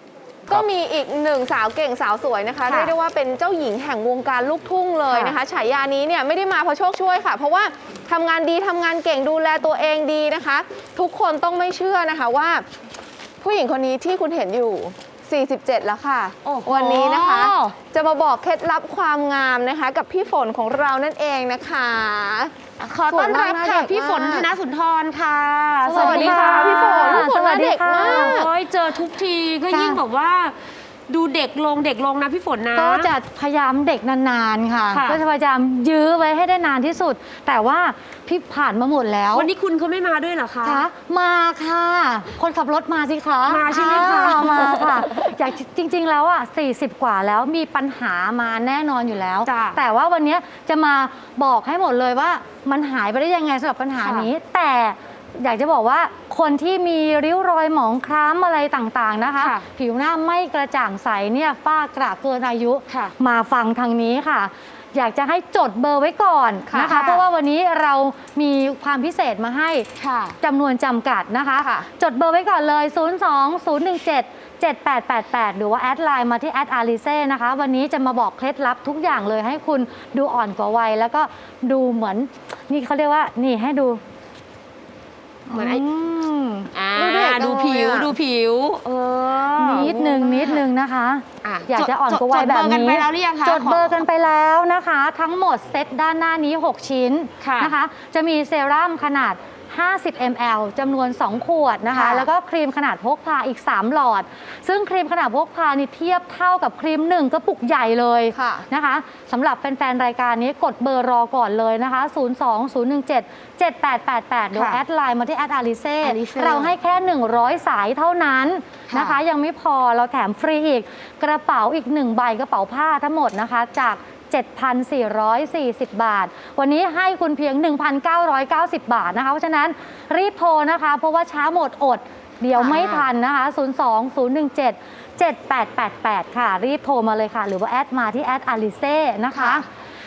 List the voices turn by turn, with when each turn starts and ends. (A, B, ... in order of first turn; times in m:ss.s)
0:00.5-0:12.6 A
0:02.6-0:02.9 B
0:13.4-0:22.6 A
0:16.4-0:17.7 B
0:22.8-0:27.3 B
0:23.1-0:24.5 A
0:25.8-0:28.4 C
0:25.9-0:28.5 A
0:27.9-0:30.6 B
0:29.7-0:30.0 C
0:31.1-0:33.1 B
0:32.7-0:39.5 C
0:34.9-0:35.2 B
0:39.3-0:40.9 B
0:40.6-1:09.9 C
0:43.4-0:45.4 B
0:49.4-0:49.8 B
0:54.0-0:54.3 B
0:59.4-0:59.6 B
1:02.9-1:03.1 B
1:06.7-1:07.0 A
1:06.8-1:07.3 B
1:10.0-1:10.4 B
1:10.4-1:24.0 C
1:11.6-1:11.9 A
1:25.5-1:26.7 C
1:25.5-1:25.8 B
1:26.7-1:29.9 B
1:26.9-1:28.1 A
1:29.6-2:19.6 C
1:29.7-1:30.6 A
1:31.4-1:34.0 B
1:37.4-1:37.8 B
1:41.9-1:42.2 B
1:48.3-1:48.6 A
1:54.5-1:54.8 B
1:56.0-1:56.7 B
1:58.9-1:59.2 B
2:12.6-2:13.1 B
2:19.3-2:19.6 A